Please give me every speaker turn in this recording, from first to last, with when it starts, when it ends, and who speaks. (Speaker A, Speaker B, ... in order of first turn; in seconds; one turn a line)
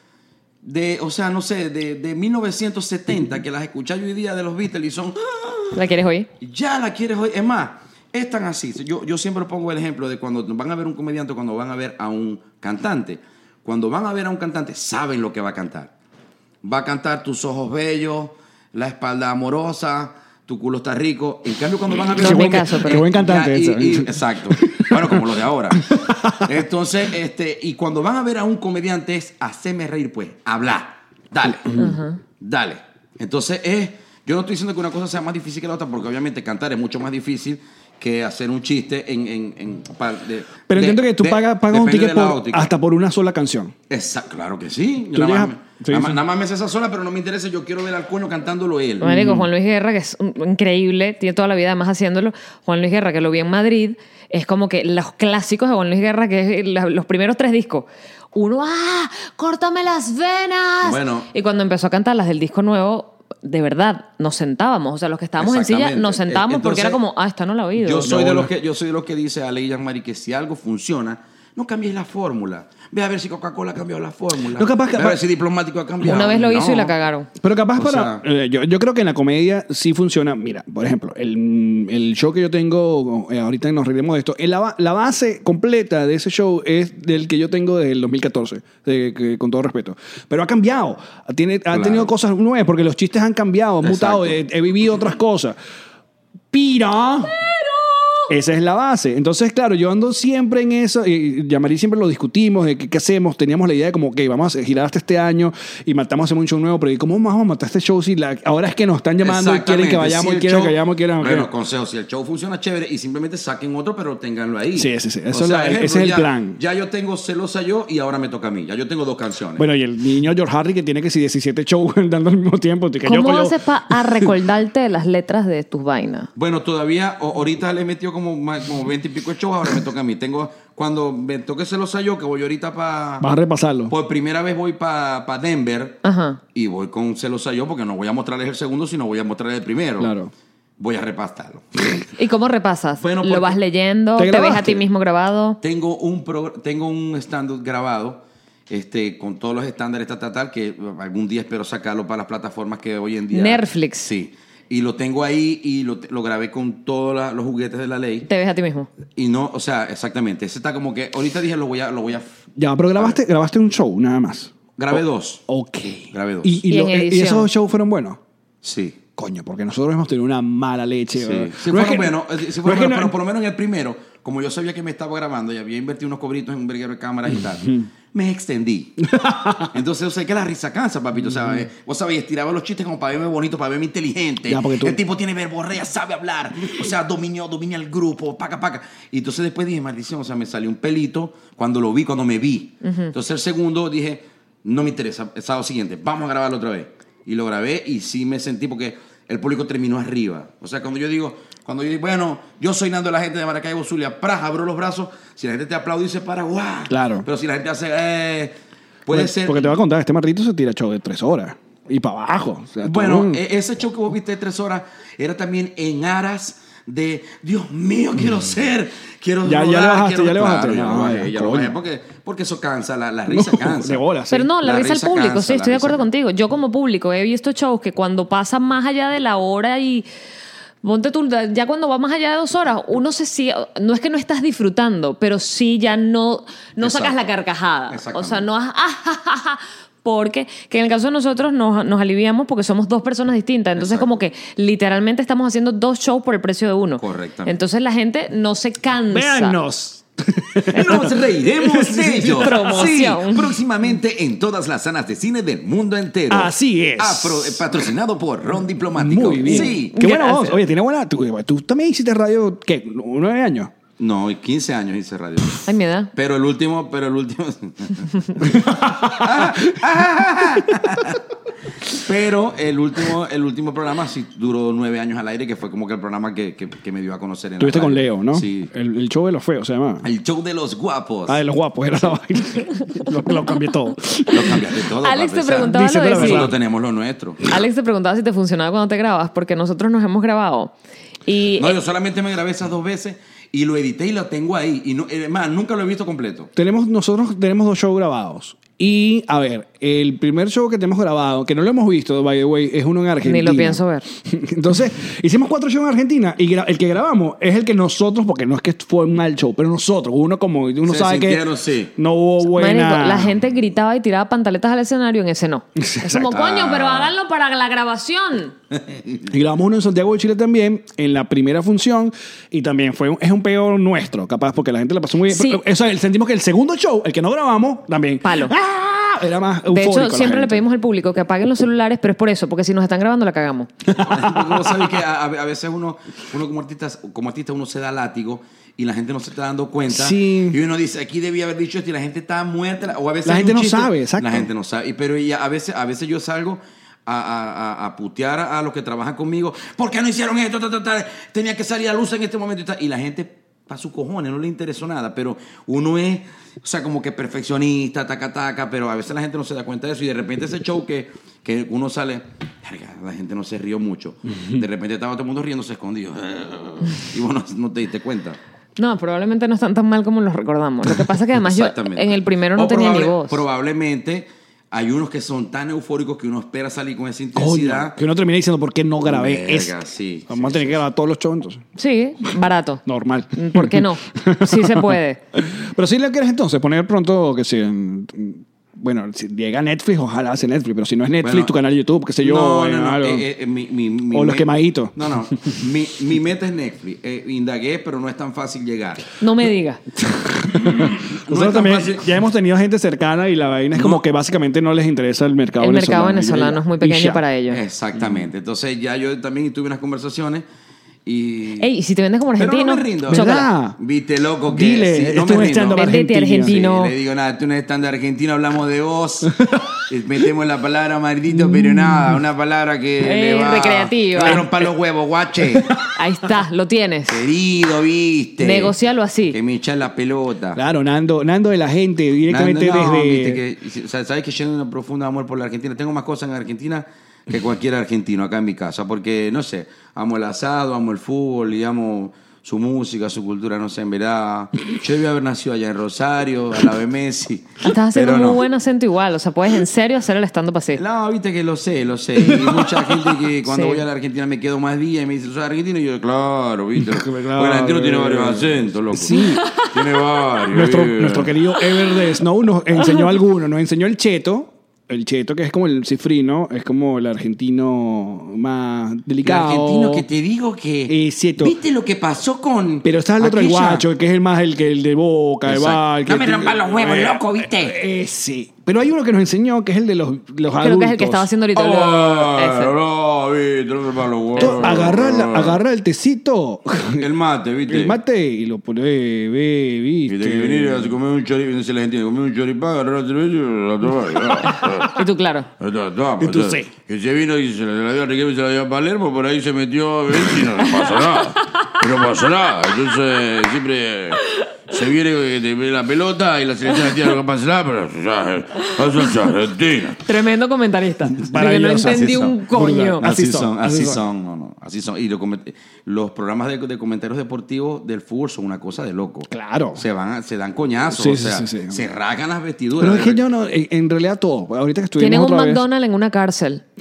Speaker A: 0.6-5.8
Speaker B: 5.7-6.3
Speaker A: 6.4-15.9
Speaker A: 16.6-31.8
Speaker C: 22.1-26.5
Speaker B: 22.2-23.0
Speaker B: 31.8-32.2
Speaker A: 32.4-42.7
Speaker C: 40.7-43.7
Speaker A: 43.9-49.1
Speaker C: 45.1-46.2
Speaker C: 49.0-49.5
Speaker B: 49.0-68.1
Speaker A: 60.8-61.3
Speaker A: 65.4-67.0
Speaker A: 67.8-76.9
Speaker C: 68.0-68.5
Speaker C: 74.5-75.2
Speaker B: 76.0-77.3
Speaker C: 77.4-95.6
Speaker A: 77.7-78.2
Speaker A: 91.7-92.1
Speaker A: 93.8-94.4
Speaker C: 96.5-97.4
Speaker C: 98.3-111.5
Speaker A: 109.2-119.7
Speaker C: 114.7-116.6
Speaker C: 119.6-124.3
Speaker B: 123.0-126.3
Speaker A: 126.3-133.3
Speaker C: 133.2-133.9
Speaker A: 133.9-136.0
Speaker B: 136.0-136.4
Speaker A: 136.5-140.1
Speaker C: 140.0-140.3
Speaker A: 140.8-141.9
Speaker B: 142.2-145.6
Speaker A: 143.0-143.6
Speaker C: 144.2-144.8
Speaker A: 145.6-158.3
Speaker B: 153.3-154.1
Speaker B: 158.3-158.9
Speaker A: 159.2-162.3
Speaker C: 162.6-168.2
Speaker A: 164.8-165.4
Speaker A: 166.1-166.6
Speaker B: 166.7-167.5
Speaker A: 168.6-169.0
Speaker C: 169.2-173.1
Speaker A: 171.1-179.1
Speaker C: 179.0-179.7
Speaker A: 179.6-208.5
Speaker C: 181.2-181.6
Speaker C: 184.4-185.0
Speaker B: 192.8-193.1
Speaker C: 206.9-207.2
Speaker A: 209.0-209.7
Speaker C: 209.1-213.4
Speaker A: 212.8-224.0
Speaker C: 219.4-221.7
Speaker C: 223.3-224.5
Speaker B: 224.3-230.1
Speaker A: 224.6-226.0
Speaker B: 230.8-249.6
Speaker A: 236.8-237.2
Speaker A: 237.9-238.4
Speaker A: 243.8-244.1
Speaker A: 247.0-247.5
Speaker C: 249.1-252.8
Speaker A: 250.7-259.9
Speaker B: 252.4-253.5
Speaker C: 256.3-257.8
Speaker C: 258.9-263.7
Speaker B: 259.5-260.6
Speaker A: 264.0-271.2
Speaker B: 265.6-266.1
Speaker C: 268.4-269.9
Speaker A: 271.9-278.7
Speaker C: 277.6-280.1
Speaker A: 280.0-281.4
Speaker C: 281.3-284.7
Speaker A: 284.3-287.4
Speaker B: 285.0-286.5
Speaker C: 285.6-286.6
Speaker B: 287.5-290.7
Speaker B: 291.2-291.8
Speaker A: 291.6-296.5
Speaker C: 296.6-311.4
Speaker B: 303.2-304.0
Speaker A: 310.8-311.9
Speaker C: 311.9-313.3
Speaker B: 312.4-318.5
Speaker C: 315.8-316.4
Speaker A: 316.3-317.1
Speaker A: 318.7-319.3
Speaker C: 319.3-330.6
Speaker B: 325.3-325.6
Speaker B: 328.2-328.5
Speaker B: 329.7-333.7
Speaker C: 333.8-334.9
Speaker A: 333.9-368.4
Speaker C: 339.9-340.6
Speaker C: 343.2-344.5
Speaker B: 368.8-373.4
Speaker A: 371.4-378.0
Speaker C: 377.3-379.7
Speaker A: 379.0-380.8
Speaker C: 380.3-381.6
Speaker B: 381.8-382.8
Speaker C: 382.8-393.2
Speaker B: 383.3-385.2
Speaker A: 391.2-391.5
Speaker A: 392.2-399.1
Speaker C: 394.1-395.0
Speaker B: 399.2-399.8
Speaker C: 400.0-407.2
Speaker A: 400.5-402.1
Speaker A: 403.7-404.0
Speaker B: 405.6-407.6
Speaker A: 407.5-410.4
Speaker A: 411.1-411.7
Speaker B: 411.6-413.5
Speaker A: 412.4-419.3
Speaker C: 413.1-413.8
Speaker C: 414.5-416.6
Speaker B: 415.8-416.9
Speaker C: 419.2-419.8
Speaker A: 419.9-425.7
Speaker C: 421.3-422.2
Speaker B: 423.0-424.4
Speaker C: 425.4-425.9
Speaker B: 425.9-427.2
Speaker A: 427.1-428.8
Speaker B: 428.4-429.4
Speaker A: 429.3-430.6
Speaker C: 430.5-433.4
Speaker A: 432.3-448.4
Speaker B: 447.6-450.8
Speaker A: 450.7-461.3
Speaker C: 452.3-452.8
Speaker B: 453.4-453.8
Speaker C: 456.8-459.4
Speaker B: 459.1-459.6
Speaker C: 460.5-470.1
Speaker A: 469.2-473.9
Speaker C: 470.9-471.6
Speaker C: 472.8-481.3
Speaker A: 475.4-477.8
Speaker B: 480.5-482.7
Speaker A: 481.5-485.6
Speaker B: 484.4-484.7
Speaker C: 484.4-487.1
Speaker A: 487.0-488.0
Speaker C: 487.7-490.9
Speaker A: 490.1-495.0
Speaker B: 494.5-495.5
Speaker A: 495.6-510.0
Speaker C: 496.2-496.7
Speaker B: 500.6-500.9
Speaker B: 508.6-509.1
Speaker B: 510.0-513.0
Speaker C: 511.1-514.0
Speaker A: 511.8-512.4
Speaker A: 513.0-523.2
Speaker C: 519.3-519.8
Speaker C: 520.9-521.8
Speaker C: 522.8-525.6
Speaker B: 525.0-526.6